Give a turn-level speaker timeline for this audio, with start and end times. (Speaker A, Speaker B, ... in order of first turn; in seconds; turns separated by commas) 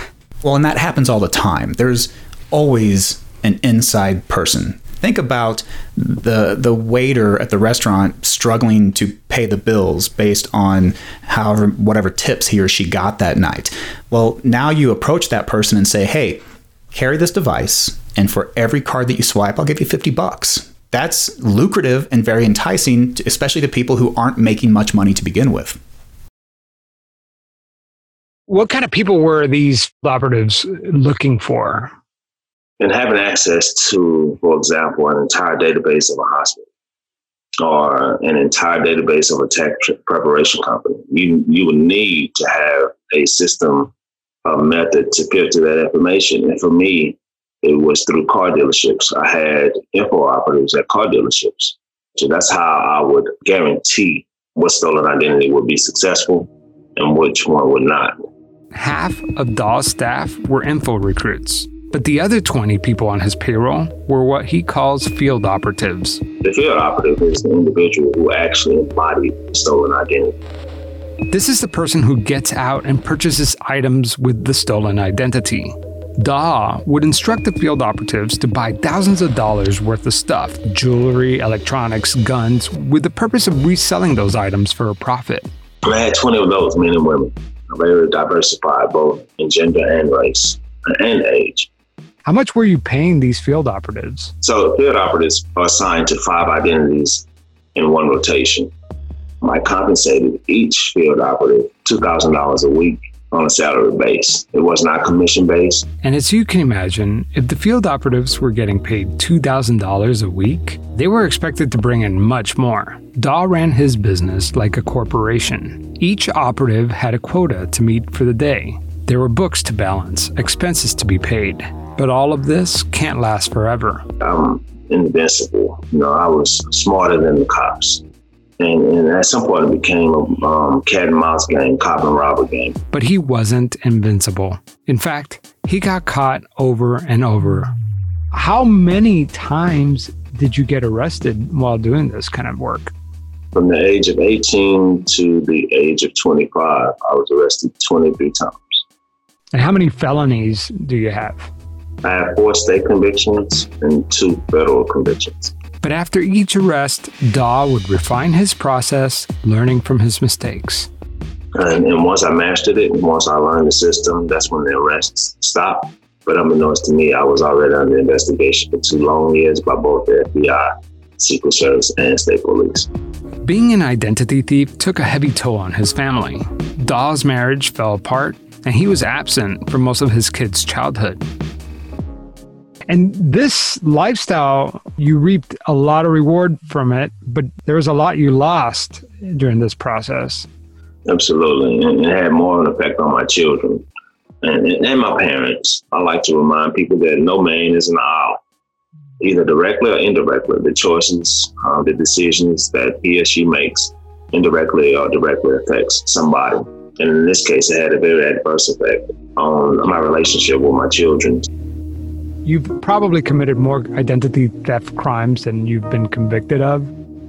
Speaker A: 0.4-25.8, Speaker B: 28.5-31.9, Speaker C: 32.8-36.7, Speaker C: 37.6-43.9, Speaker C: 44.5-58.1, Speaker B: 58.7-66.2, Speaker C: 66.4-70.4, Speaker B: 71.3-85.5, Speaker C: 85.8-91.7, Speaker B: 92.2-94.3, Speaker C: 94.4-98.7, Speaker C: 99.4-105.9, Speaker B: 106.0-124.1, Speaker C: 124.2-128.0, Speaker C: 128.6-132.8, Speaker B: 132.9-137.7, Speaker B: 138.3-142.9, Speaker C: 143.5-148.8, Speaker B: 149.5-151.5, Speaker C: 152.0-155.5, Speaker B: 155.8-160.9, Speaker C: 161.6-172.9, Speaker B: 173.4-181.3, Speaker B: 182.9-190.5, Speaker C: 191.1-193.9, Speaker C: 194.4-198.4, Speaker C: 199.2-211.5, Speaker B: 212.4-216.9